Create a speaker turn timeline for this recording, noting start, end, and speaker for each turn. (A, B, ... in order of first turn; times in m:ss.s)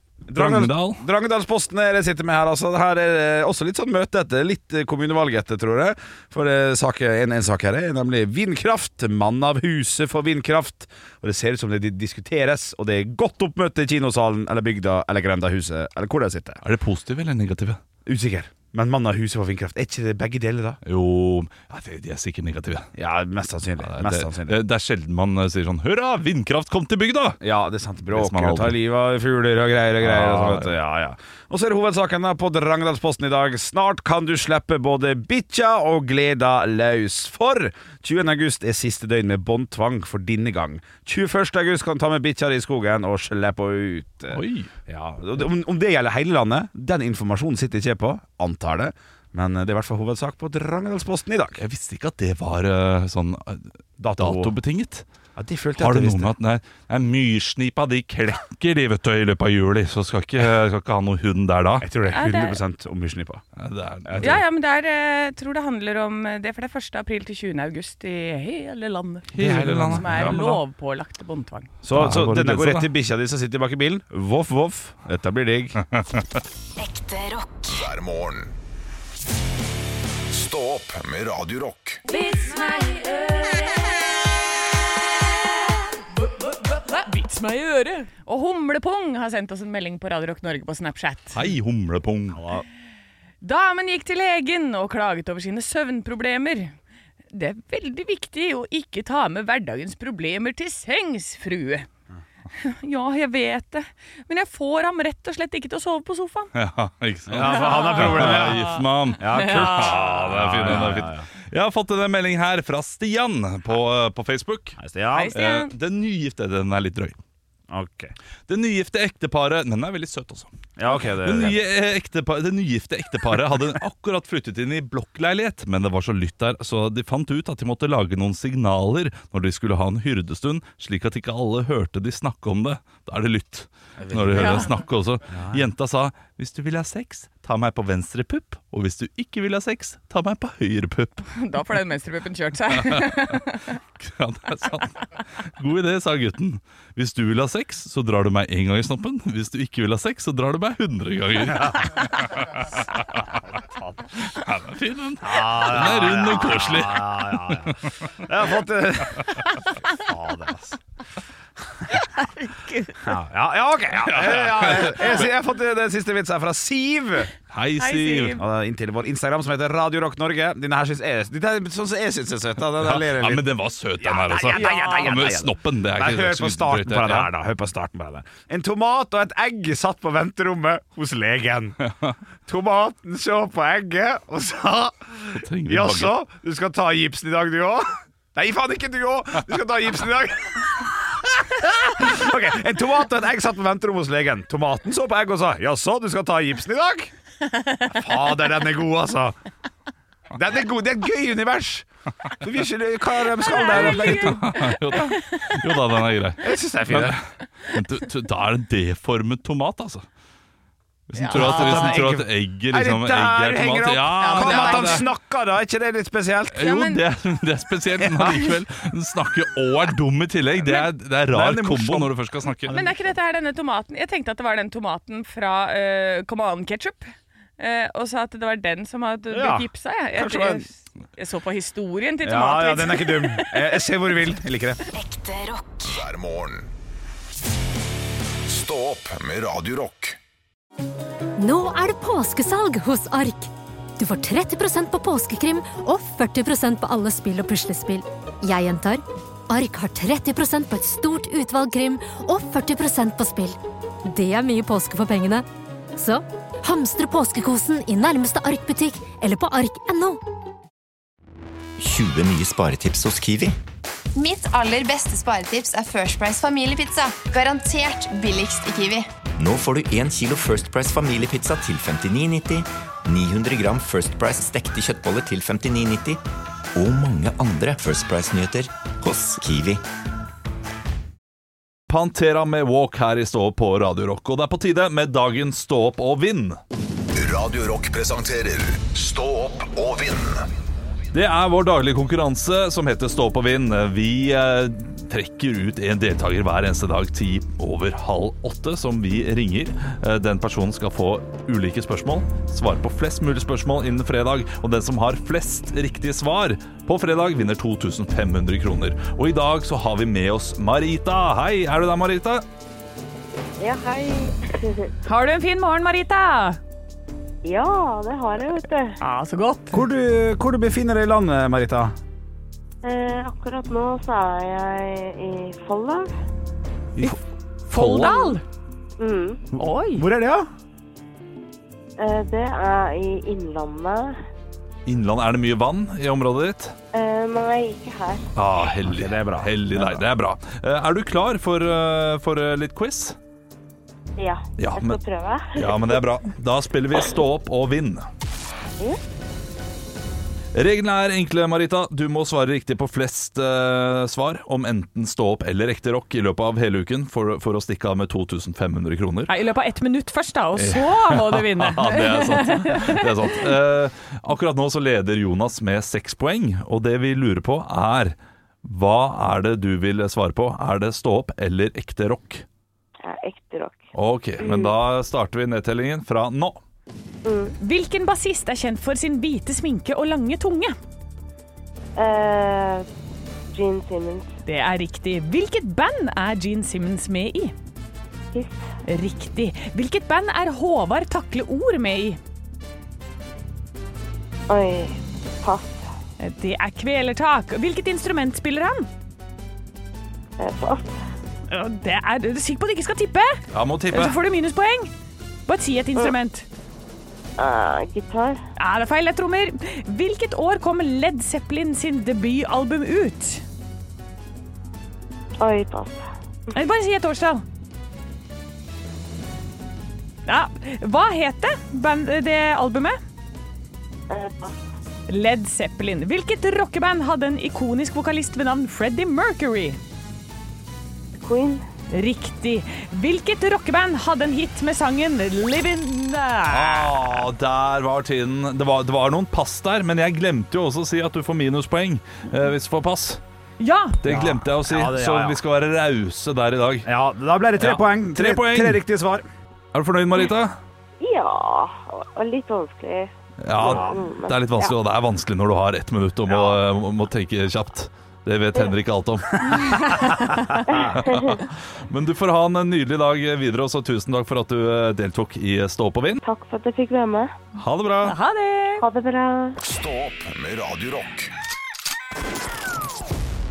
0:00.3-0:16.6 A
0:00.3-0:01.0 B
0:16.6-0:17.8 B
0:18.0-0:20.8 A
0:20.8-0:22.9 B
0:23.0-0:24.6 A
0:23.8-0:27.4 B
0:27.4-0:51.6 A
0:28.1-0:28.8 B
0:30.0-0:30.7 B
0:44.3-0:44.7 B
0:51.6-0:55.0 B
0:54.0-0:54.5 A
0:55.4-0:56.3 A
0:55.8-1:01.9 B
1:01.8-1:03.4 A
1:02.1-1:02.6 C
1:03.6-1:04.4 B
1:04.0-1:04.4 A
1:04.2-1:11.7 C
1:09.3-1:10.6 B
1:09.4-1:10.4 A
1:11.8-1:15.8 A
1:11.9-1:12.9 B
1:17.6-1:18.5 D
1:20.3-1:22.0 D
1:22.1-1:23.6 C
1:26.6-1:31.4 C
1:31.3-1:32.4 B
1:32.3-1:32.6 A
1:33.4-1:36.7 C
1:37.3-1:41.9 C
1:42.6-1:46.5 C
1:46.5-1:54.8 B
1:47.3-1:51.3 A
1:47.4-1:48.8 C
1:49.3-1:50.3 C
1:54.8-1:55.3 A
1:55.1-1:55.7 C
1:55.3-1:57.2 B
1:57.7-1:58.1 A
1:58.5-2:00.5 B
2:00.8-2:01.6 A
2:01.2-2:21.3 B
2:14.0-2:14.7 A
2:14.4-2:14.7 C
2:15.3-2:15.6 A
2:21.3-2:23.7 C
2:22.7-2:23.4 B
2:24.0-2:33.3 B
2:33.5-2:34.0 A
2:34.2-2:37.7 B
2:35.2-2:40.8 A
2:41.9-2:43.1 C
2:43.0-2:47.3 A
2:44.0-2:45.3 B
2:47.5-2:48.4 B
2:47.8-2:48.4 C
2:48.4-2:53.4 A
2:52.8-2:57.3 B
2:54.0-3:01.8 A
2:54.5-2:55.1 C
3:01.8-3:02.1 B
3:02.5-3:17.1 A
3:05.3-3:06.1 B
3:17.6-3:17.9 C
3:17.9-3:19.4 A
3:20.3-3:21.9 A
3:22.4-3:24.6 A
3:23.4-3:25.5 C
3:23.6-3:30.0 B
3:26.4-3:27.2 A
3:31.1-3:35.0 B
3:31.2-3:32.0 C
3:31.3-3:36.7 A
3:34.2-3:35.0 C
3:36.5-3:42.8 B
3:36.6-3:37.0 C
3:38.0-3:38.5 A
3:40.7-3:42.9 A
3:42.7-3:53.7 C
3:49.3-3:50.7 A
3:52.2-3:54.8 A
3:55.7-3:56.7 D
3:58.5-4:00.2 D
4:01.4-4:20.2 E
4:21.8-4:23.5 F
4:24.1-4:29.1 G
4:29.4-4:36.2 F
4:36.7-4:39.8 F
4:41.9-4:46.6 B
4:47.1-4:50.4 D
4:51.1-5:12.4 B
5:13.6-5:14.9 H
5:15.0-5:16.6 C
5:17.4-5:19.0 H
5:19.0-5:19.8 C
5:19.7-5:21.9 A
5:22.8-5:26.1 H
5:27.7-5:28.4 B
5:27.7-5:28.4 C
5:29.0-5:29.4 H
5:29.6-5:30.0 C
5:29.9-5:30.5 A
5:32.0-5:34.2 H
5:34.8-5:36.7 B
5:36.9-5:38.2 H
5:38.3-5:43.2 B
5:38.8-5:40.0 A
5:44.2-5:46.0 H
5:44.6-5:45.0 B
5:45.5-5:48.1 B
5:50.5-5:59.3 B
5:59.3-6:03.4 C
6:00.6-6:12.4 B
6:13.0-6:14.7 H
6:13.9-6:16.6 B
6:17.2-6:17.5 H
6:17.6-6:20.8 C
6:22.0-6:22.8 H
6:23.5-6:24.3 H
6:24.4-6:27.5 C
6:28.8-6:32.2 C
6:34.5-6:35.8 H
6:36.2-6:38.9 C
6:40.4-6:41.0 H
6:41.5-6:44.9 C
6:43.5-6:44.2 B
6:45.5-6:46.5 C
6:47.4-6:48.4 H
6:48.6-6:53.4 C
6:55.4-6:56.0 H
6:56.5-6:57.4 C
7:00.2-7:03.0 C
7:04.1-7:04.6 H
7:05.1-7:09.8 C
7:11.2-7:11.6 H
7:11.9-7:16.9 C
7:16.5-7:23.2 B
7:23.6-7:24.0 C
7:24.0-7:26.9 B
7:24.1-7:25.4 A
7:26.8-7:29.2 A
7:27.6-7:28.8 B
7:29.7-7:30.6 B
7:31.0-7:34.7 H
7:33.4-7:40.1 B
7:33.6-7:34.0 A
7:39.8-7:40.5 C
7:40.7-7:41.4 H
7:40.8-7:46.2 B
7:46.2-7:47.3 H
7:47.6-7:48.2 B
7:48.0-7:48.8 C
7:48.8-7:49.6 H
7:49.6-7:51.3 D